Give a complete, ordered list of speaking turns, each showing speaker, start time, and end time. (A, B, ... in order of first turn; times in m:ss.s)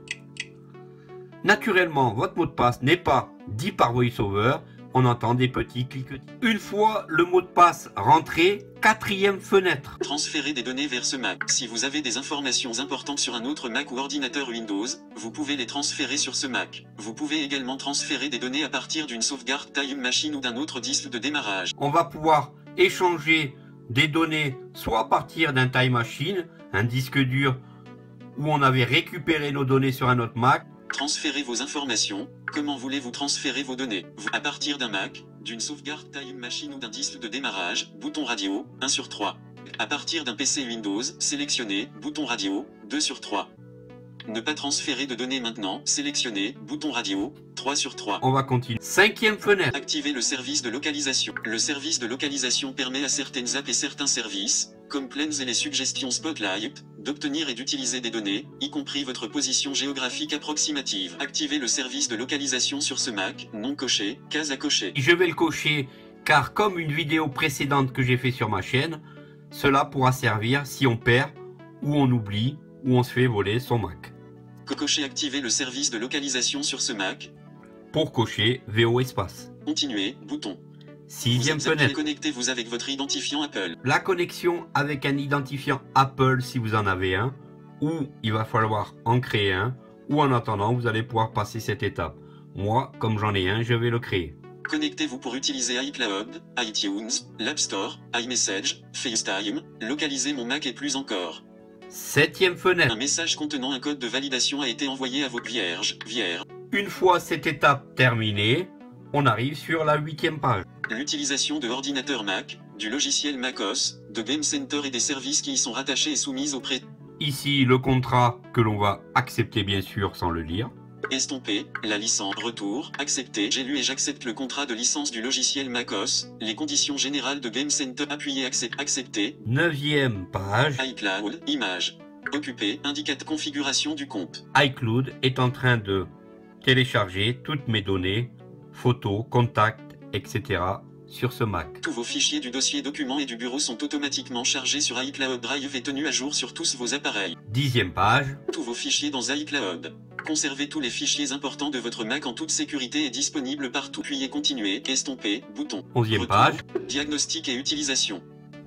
0:01.4-0:10.0 A
0:10.0-0:21.7 B
0:21.8-0:27.6 A
0:28.3-0:30.6 A
0:30.9-0:43.5 B
0:44.2-0:48.2 B
0:48.2-0:49.8 A
0:49.7-1:05.0 B
1:04.9-1:14.1 A
1:14.6-1:17.3 B
1:17.9-1:19.5 A
1:19.6-1:20.6 B
1:21.1-1:22.0 A
1:21.2-1:23.7 B
1:23.8-1:34.3 A
1:34.6-1:41.4 B
1:41.9-1:42.9 A
1:42.9-1:46.4 B
1:46.7-1:50.6 A
1:50.9-1:56.8 B
1:57.2-2:00.7 A
2:01.1-2:09.4 B
2:09.4-2:10.8 A
2:10.8-2:14.4 B
2:14.5-2:16.1 A
2:16.6-2:21.8 A
2:21.8-2:27.3 B
2:27.5-2:28.4 A
2:28.5-2:38.2 B
2:35.9-2:36.6 A